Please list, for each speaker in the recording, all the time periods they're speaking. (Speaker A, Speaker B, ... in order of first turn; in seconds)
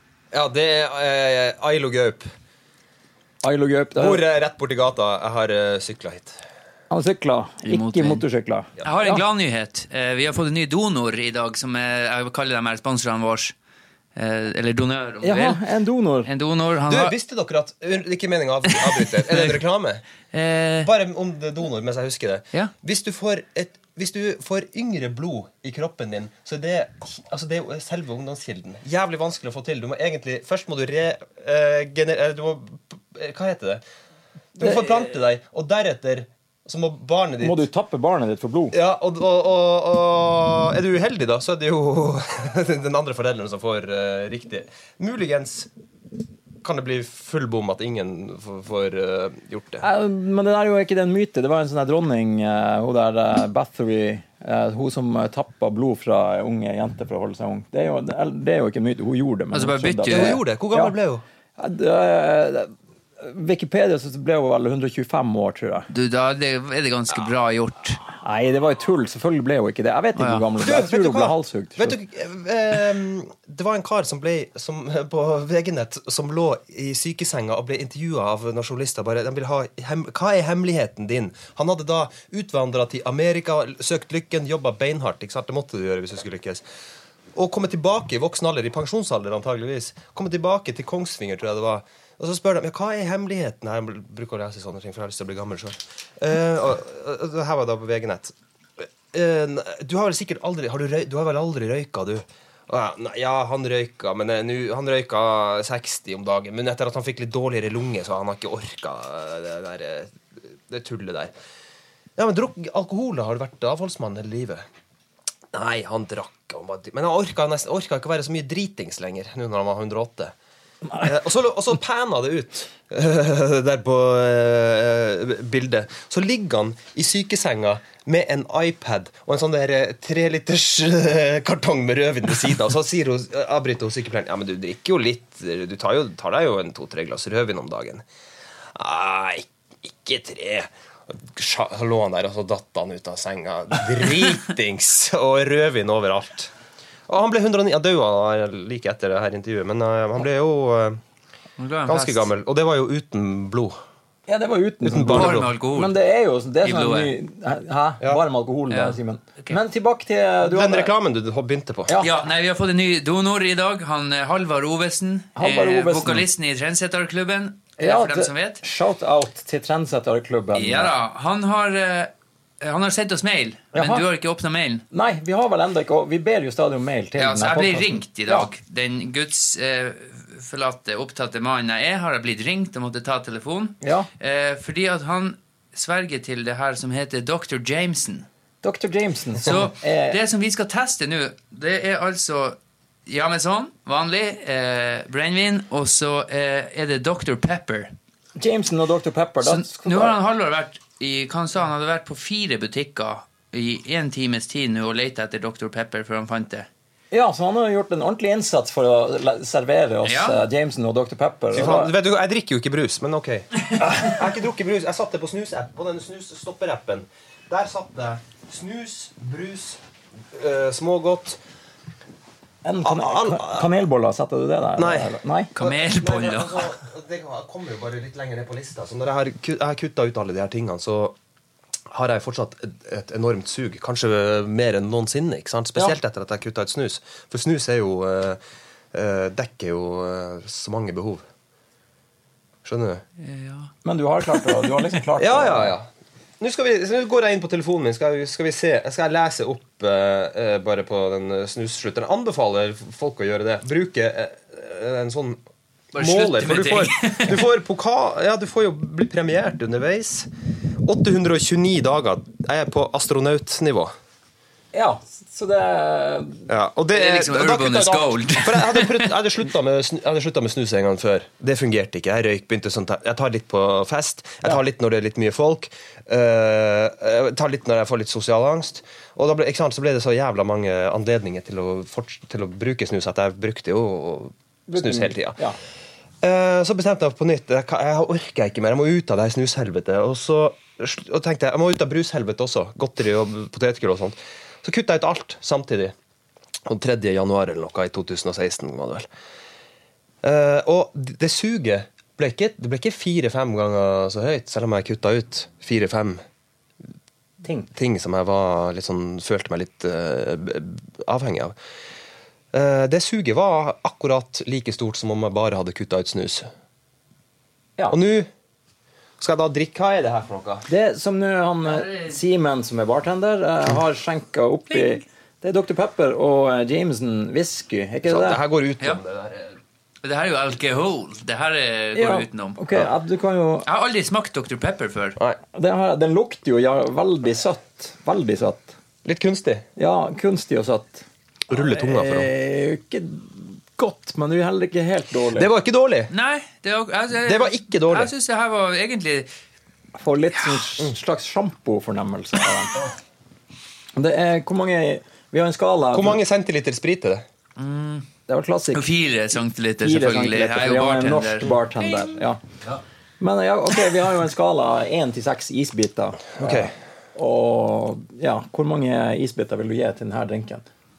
Speaker A: 0.3-2.3, 4.0-6.4, 16.9-20.0, 20.8-33.8, 34.6-37.6, 38.7-45.7, 46.6-49.8, 60.1-61.2, 70.6-86.6, 87.3-111.3, 112.2-114.6, 115.5-120.3, 121.0-138.0, 138.7-146.5, 147.1-151.0, 151.8-153.7, 154.8-155.5, 160.4-161.9, 211.5-219.8, 220.3-221.4, 222.8-223.7, 224.8-231.2, 231.9-238.4, 238.9-241.2, 242.6-243.0, 245.2-245.9, 246.4-255.4, 255.9-260.3, 260.8-263.9, 266.5-285.4, 286.2-295.9, 296.6-299.1, 300.2-306.2, 307.7-311.6, 312.5-316.5, 317.9-318.3, 319.2-320.6, 328.0-329.5, 339.0-339.6, 341.5-342.3, 345.3-346.1, 347.2-348.1, 355.9-357.2, 366.4-366.7
Speaker B: 3.4-4.2, 6.9-9.2, 15.2-16.3, 34.6-35.0, 37.4-38.8, 49.8-60.9, 61.6-65.9, 68.1-72.0, 154.3-160.9, 161.9-162.1, 165.3-166.2, 167.8-170.9, 173.7-174.0, 174.9-178.5, 183.8-184.1, 188.6-190.2, 198.4-200.2, 207.1-211.9, 222.6-225.5, 243.8-245.7, 264.7-266.5, 284.7-285.6, 307.4-307.7, 320.7-328.4, 331.9-333.6, 335.5-338.7, 339.8-345.5, 350.0-352.8, 353.9-356.2, 358.3-358.9, 359.8-362.4, 363.2-370.6
Speaker C: 7.6-8.2, 8.8-13.5, 14.2-15.6, 16.2-17.1, 18.7-19.6, 20.3-20.9, 59.5-60.4, 65.9-68.0, 70.2-70.5, 151.6-152.3, 155.0-155.9, 156.6-157.1, 158.7-159.6, 162.0-168.6, 170.5-174.8, 177.2-188.3, 189.4-197.9, 199.4-206.7, 210.0-210.4, 225.6-226.7, 243.2-243.7, 255.9-257.4, 266.9-269.1, 321.7-322.1, 330.0-332.6, 333.6-335.2, 346.1-349.3, 357.6-358.1, 358.7-362.2